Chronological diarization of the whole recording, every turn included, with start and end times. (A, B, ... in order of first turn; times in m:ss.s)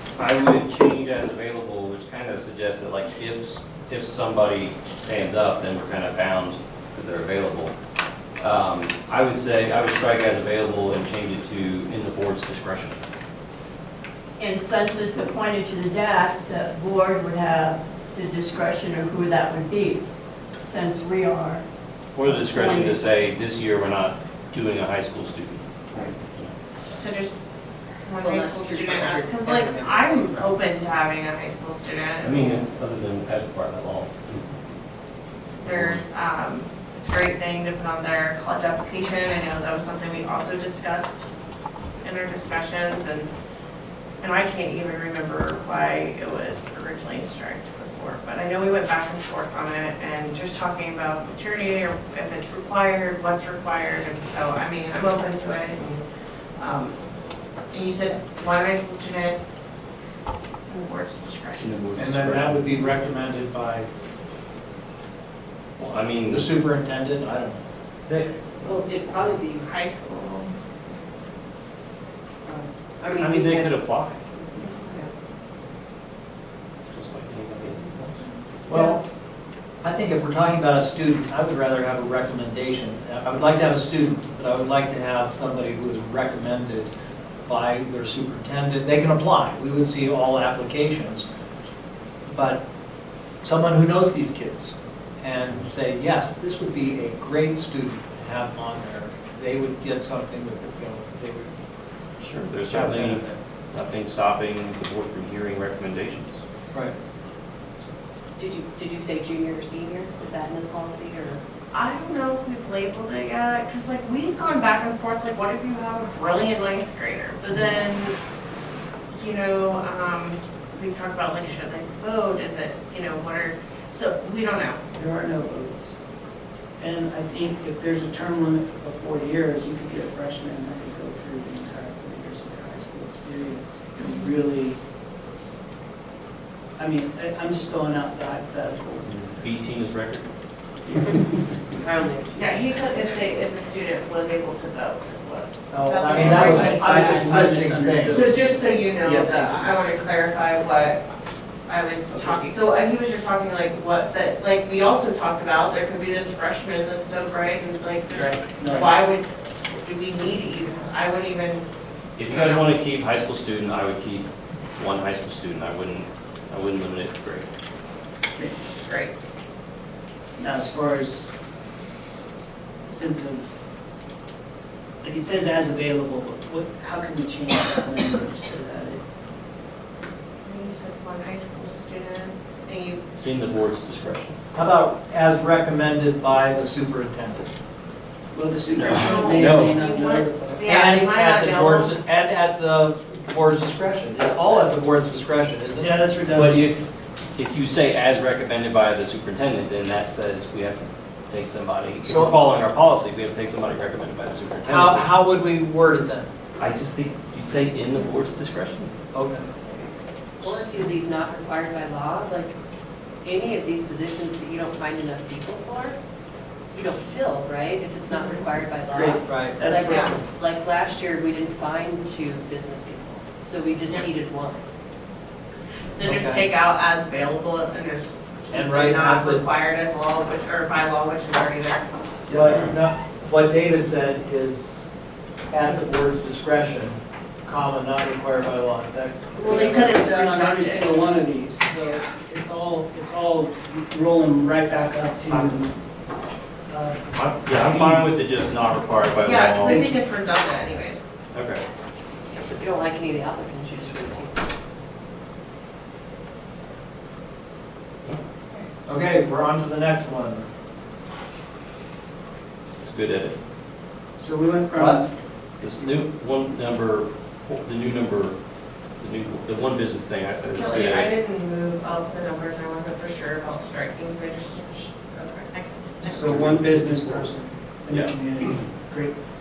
0:00.2-0:07.8 A
0:08.4-0:13.0 A
0:14.4-0:20.0 B
0:20.6-0:21.6 B
0:22.2-0:26.5 A
0:22.2-0:23.0 B
0:27.0-0:27.4 C
0:28.0-0:32.6 C
0:28.2-0:30.4 D
0:32.2-0:34.6 A
0:35.6-0:41.3 C
0:35.6-0:36.0 A
0:42.0-0:43.3 C
0:44.2-0:56.0 C
0:56.6-0:57.0 C
0:57.7-0:59.4 C
1:00.7-1:01.7 C
1:01.6-1:02.8 A
1:02.0-1:03.9 E
1:05.8-1:06.5 A
1:06.3-1:07.6 E
1:08.1-1:08.4 A
1:08.6-1:09.7 F
1:09.6-1:10.5 C
1:12.5-1:13.8 F
1:13.1-1:14.2 A
1:14.4-1:15.1 F
1:16.9-1:18.2 A
1:18.7-1:19.0 E
1:19.8-1:26.9 E
1:27.5-1:31.3 E
1:32.3-1:32.6 E
1:33.4-1:41.5 E
1:42.2-1:46.4 A
1:42.7-1:43.3 E
1:48.4-1:51.4 F
1:51.7-1:58.2 C
1:59.1-2:04.8 C
2:04.9-2:05.9 D
2:06.8-2:14.8 D
2:14.0-2:14.3 C
2:16.8-2:19.1 D
2:19.0-2:20.3 A
2:20.9-2:21.4 D
2:21.8-2:22.6 F
2:22.4-2:31.0 C
2:25.7-2:28.3 E
2:26.1-2:29.8 D
2:26.2-2:26.7 F
2:31.7-2:41.6 C
2:38.1-2:39.0 D
2:42.2-2:47.5 A
2:42.3-2:42.7 C
2:48.8-2:49.1 C
2:50.4-2:51.4 D
2:52.8-2:53.5 D
2:55.0-2:59.0 D
3:00.4-3:03.0 C
3:03.2-3:04.4 A
3:04.5-3:07.5 E
3:08.3-3:10.7 D
3:08.7-3:09.8 A
3:09.0-3:12.0 C
3:10.6-3:16.5 E
3:15.8-3:16.6 D
3:16.3-3:16.8 A
3:17.4-3:25.1 A
3:22.1-3:22.4 E
3:24.6-3:26.3 E
3:26.6-3:28.9 A
3:29.1-3:29.5 E
3:30.4-3:32.6 F
3:33.2-3:36.0 F
3:36.7-3:44.6 F
3:38.1-3:38.5 C
3:38.9-3:40.1 D
3:39.2-3:39.6 E
3:39.8-3:40.1 C
3:45.9-3:51.8 C
3:46.0-3:46.5 E
3:48.5-3:49.4 E
3:52.3-3:54.8 E
3:55.5-3:59.8 E
3:59.4-4:05.7 D
3:59.4-4:01.1 C
4:01.8-4:02.1 C
4:06.7-4:07.0 D
4:07.2-4:09.8 A
4:07.6-4:08.0 D
4:09.2-4:11.0 C
4:09.6-4:10.0 D
4:11.3-4:11.6 A
4:12.3-4:14.4 F
4:18.9-4:20.5 E
4:22.8-4:23.4 A
4:24.2-4:25.9 D
4:24.8-4:25.0 E
4:25.6-4:28.4 A
4:29.0-4:31.1 A
4:30.5-4:35.5 C
4:36.0-4:39.1 D